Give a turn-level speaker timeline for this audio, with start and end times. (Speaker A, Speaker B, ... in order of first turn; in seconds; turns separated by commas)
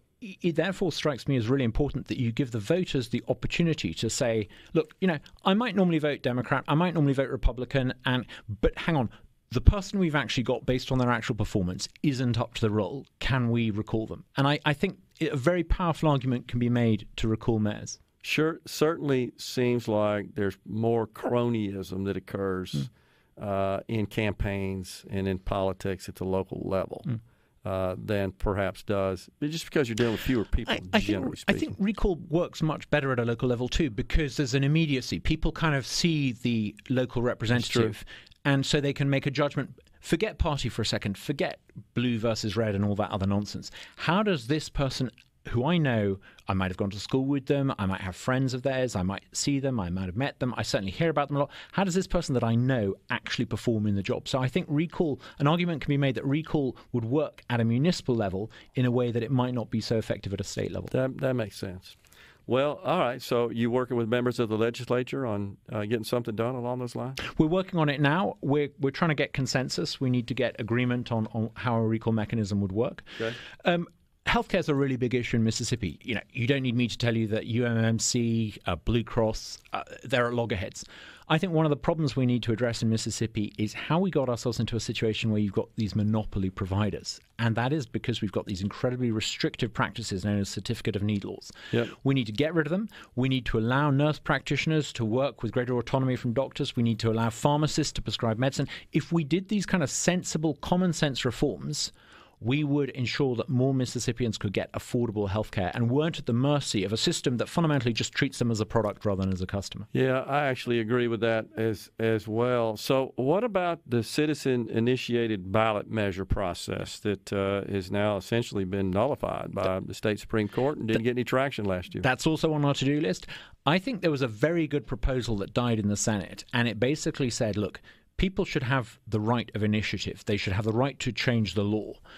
Speaker A: 0.2-18.0, Speaker B: 18.2-31.8, Speaker A: 30.7-60.9, Speaker B: 37.5-37.9, Speaker B: 60.9-62.0, Speaker B: 62.5-67.2, Speaker A: 67.2-109.9, Speaker B: 109.9-122.1, Speaker A: 122.0-132.0